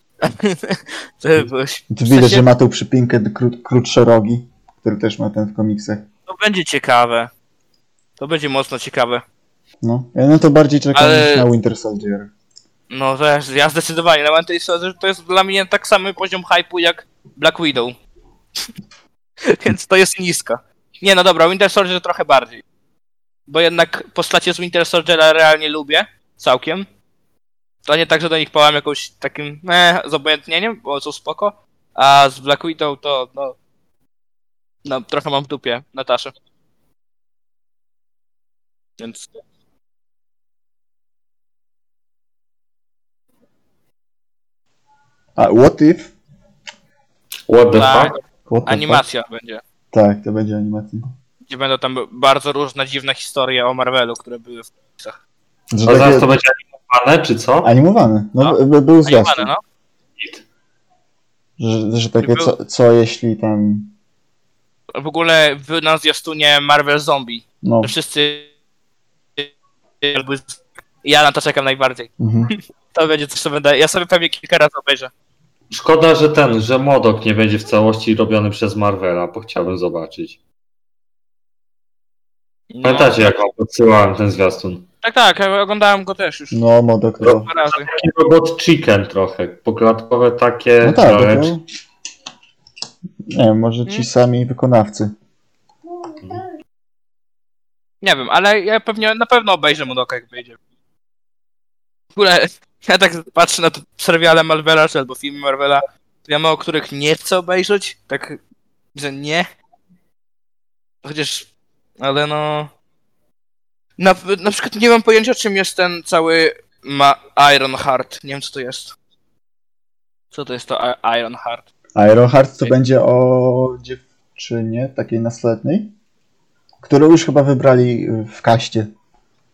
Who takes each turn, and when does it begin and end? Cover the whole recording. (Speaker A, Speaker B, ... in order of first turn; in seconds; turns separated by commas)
Speaker A: 0.2-2.5, Speaker B: 1.9-6.0, Speaker A: 6.3-7.3, Speaker A: 8.2-9.2, Speaker B: 9.8-12.3, Speaker A: 10.9-11.4, Speaker A: 12.9-18.0, Speaker A: 19.4-22.6, Speaker A: 23.5-26.9, Speaker A: 27.8-33.6, Speaker A: 34.8-36.3, Speaker A: 39.0-39.3, Speaker B: 45.4-46.1, Speaker C: 47.5-48.1, Speaker A: 47.7-49.6, Speaker B: 48.5-49.0, Speaker B: 49.9-51.1, Speaker A: 51.5-55.2, Speaker B: 55.7-56.3, Speaker C: 55.9-57.7, Speaker B: 57.6-59.5, Speaker A: 58.4-59.6, Speaker B: 61.6-63.9, Speaker A: 62.2-62.5, Speaker A: 64.9-68.5, Speaker B: 67.6-67.9, Speaker A: 70.0-75.1, Speaker B: 72.2-72.5, Speaker C: 75.7-80.4, Speaker A: 82.7-83.3, Speaker C: 82.8-84.9, Speaker A: 85.0-86.6, Speaker B: 86.5-87.5, Speaker A: 87.2-87.9, Speaker C: 87.3-91.5, Speaker B: 90.8-91.6, Speaker B: 93.3-95.1, Speaker A: 98.0-100.6, Speaker A: 102.2-108.4, Speaker A: 108.9-109.5, Speaker A: 111.0-111.5, Speaker A: 112.0-112.7, Speaker A: 114.0-118.9, Speaker A: 120.3-121.6, Speaker B: 122.0-125.9, Speaker B: 126.8-128.9